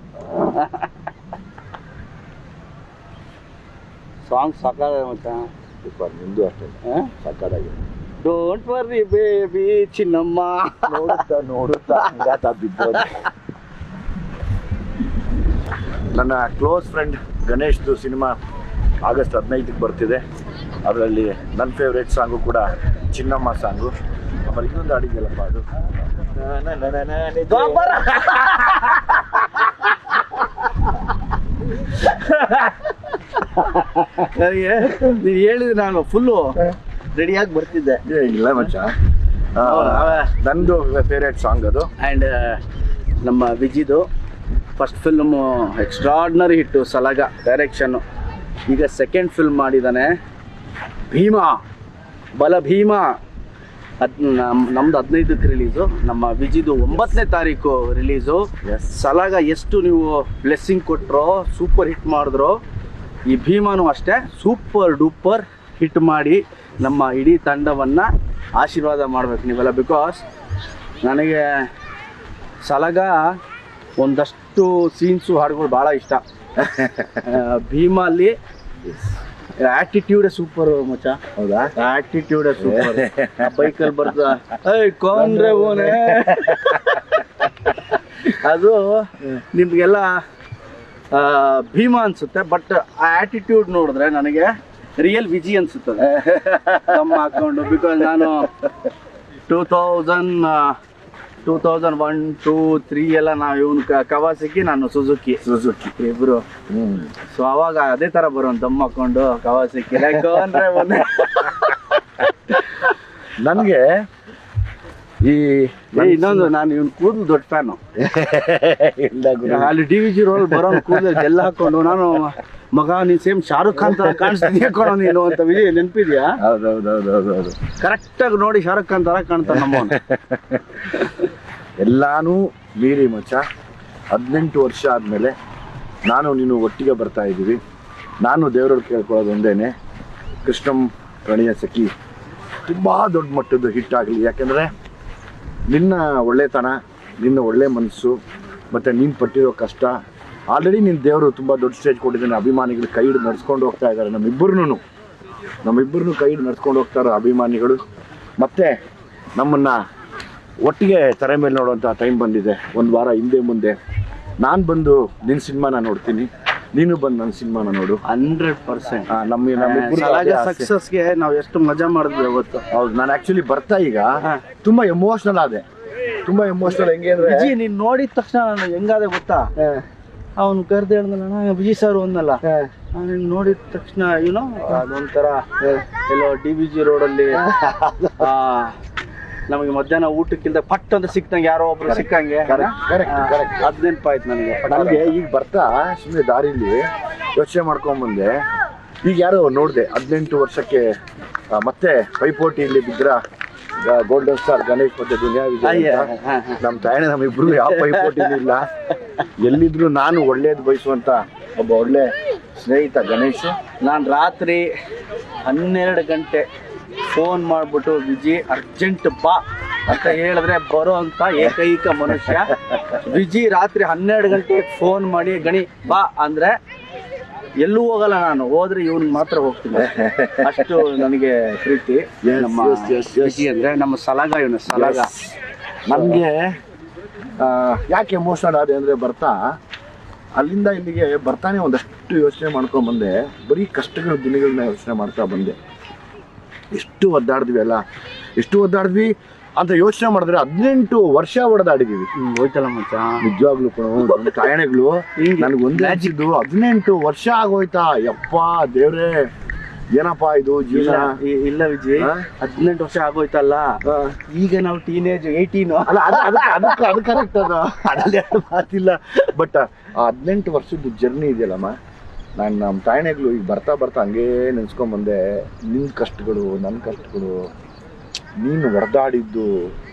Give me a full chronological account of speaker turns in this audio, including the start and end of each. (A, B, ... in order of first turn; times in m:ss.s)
0:00.2-0:01.0 A
0:04.3-0:05.5 A
0:05.8-0:07.8 B
0:06.8-0:07.1 A
0:08.2-0:11.2 A
0:10.9-0:13.1 B
0:12.0-0:12.2 A
0:12.8-0:13.2 A
0:16.1-0:18.4 B
0:19.0-0:20.2 B
0:20.8-0:29.2 B
0:27.5-0:29.4 A
0:31.9-0:38.0 A
0:38.0-0:39.0 B
0:39.6-0:41.9 B
0:39.6-0:40.4 A
0:42.0-0:42.6 A
0:43.2-0:44.1 A
0:44.8-0:48.0 A
0:48.7-0:50.1 A
0:51.1-0:51.6 A
0:52.4-0:53.2 A
0:54.0-1:02.6 A
0:58.6-0:59.0 B
1:03.3-1:10.2 A
1:11.0-1:11.7 A
1:12.6-1:13.3 A
1:14.0-1:16.2 A
1:16.6-1:17.3 B
1:17.2-1:18.4 A
1:18.8-1:19.1 B
1:19.6-1:21.2 A
1:21.4-1:21.7 B
1:21.8-1:27.2 A
1:22.6-1:24.1 B
1:25.1-1:27.0 B
1:27.9-1:30.2 A
1:31.1-1:38.5 A
1:36.1-1:37.3 B
1:38.2-1:38.5 B
1:39.5-1:40.8 A
1:41.4-1:45.4 A
1:45.4-1:45.9 B
1:46.0-1:46.4 A
1:46.7-1:47.1 B
1:47.3-1:51.8 A
1:50.1-1:50.6 B
1:53.4-1:54.0 B
1:55.2-1:56.5 B
1:56.0-1:57.8 A
1:58.0-1:59.8 B
1:59.4-2:06.4 A
2:00.3-2:01.3 B
2:03.8-2:05.3 B
2:06.4-2:07.6 B
2:07.8-2:10.0 A
2:09.5-2:11.2 B
2:11.8-2:13.4 B
2:14.1-2:15.4 B
2:16.1-2:17.6 B
2:18.2-2:19.7 B
2:20.4-2:21.9 B
2:22.6-2:24.7 B
2:25.7-2:28.2 B
2:28.7-2:30.0 B
2:30.5-2:34.8 B
2:35.6-2:37.8 B
2:38.4-2:38.8 B
2:39.4-2:39.8 B
2:40.6-2:43.8 B
2:44.4-2:48.0 B
2:48.0-2:52.6 A
2:49.1-2:50.7 B
2:52.7-2:55.6 B
2:56.2-2:57.5 B
2:57.2-2:59.5 A
2:59.6-2:59.8 B
3:00.4-3:07.4 A
3:02.4-3:02.7 B
3:07.3-3:08.3 B
3:08.2-3:08.8 A
3:09.5-3:15.1 A
3:11.9-3:13.7 B
3:14.6-3:18.4 B
3:19.0-3:20.9 B
3:21.5-3:23.2 B
3:23.8-3:28.7 B
3:25.6-3:26.7 A
3:27.4-3:28.4 A
3:29.4-3:33.6 B
3:33.8-3:34.7 A
3:35.4-3:36.5 A
3:37.0-3:46.6 A
3:42.3-3:42.8 B
3:47.6-3:55.1 A
3:49.7-3:51.0 B
3:52.2-3:53.5 B
3:54.7-3:56.6 B
3:57.4-3:59.4 B
4:00.4-4:05.6 B
4:06.7-4:07.8 B
4:08.4-4:12.1 B
4:12.2-4:13.3 A
4:13.2-4:19.3 B
4:14.0-4:14.4 A
4:15.2-4:16.1 A
4:19.9-4:21.2 B
4:20.7-4:26.9 A
4:22.0-4:22.3 B
4:23.8-4:24.2 B
4:25.9-4:31.8 B
4:32.4-4:37.5 B
4:38.4-4:39.7 B